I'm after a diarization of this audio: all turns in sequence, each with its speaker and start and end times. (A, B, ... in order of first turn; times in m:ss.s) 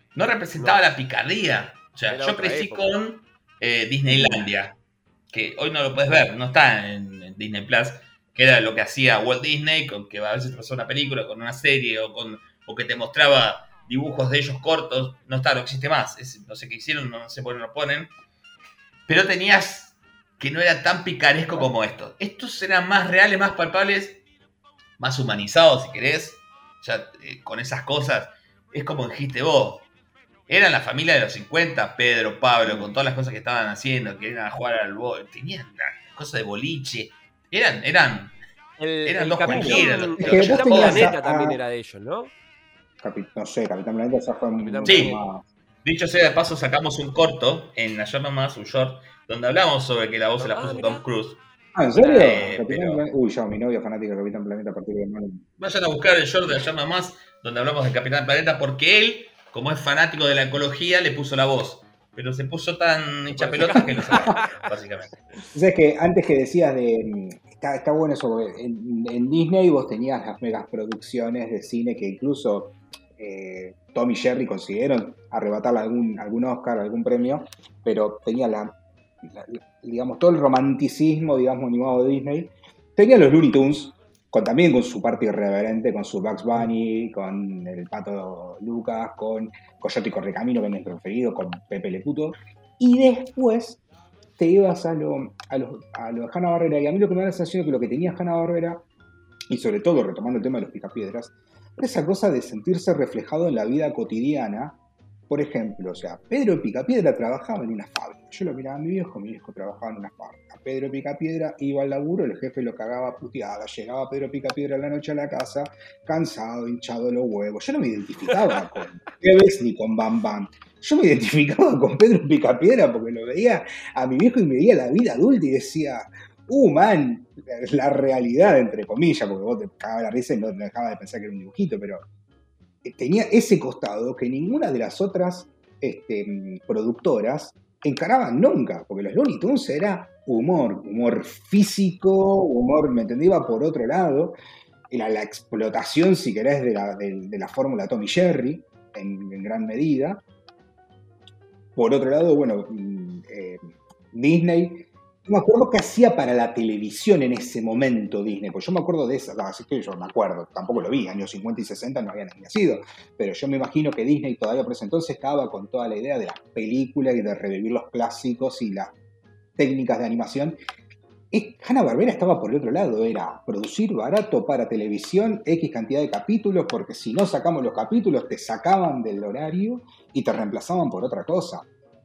0:00.1-0:04.8 A
0:00.6-0:00.8 B
0:02.1-0:02.9 B
0:04.0-0:04.4 C
0:05.3-0:18.1 A
0:19.1-0:24.2 A
0:25.0-0:29.9 A
0:30.5-0:38.4 A
0:32.6-0:32.9 C
0:38.8-0:42.3 B
0:39.0-0:41.1 A
0:39.4-0:41.6 C
0:43.0-0:45.5 C
0:44.6-0:45.3 B
0:44.8-0:45.2 A
0:45.8-0:51.4 A
0:50.4-0:51.0 B
0:51.7-0:55.4 C
0:52.0-0:52.4 B
0:52.0-0:53.0 A
0:55.6-1:05.1 A
1:03.3-1:04.7 B
1:03.9-1:04.4 C
1:05.5-1:33.8 C
1:34.4-1:38.8 C
1:39.5-1:44.8 C
1:45.3-2:12.0 C
1:58.3-1:58.6 B
2:12.8-2:24.4 C
2:24.9-2:30.2 C
2:31.8-2:48.9 C
2:49.6-2:50.6 C
2:51.3-3:01.6 C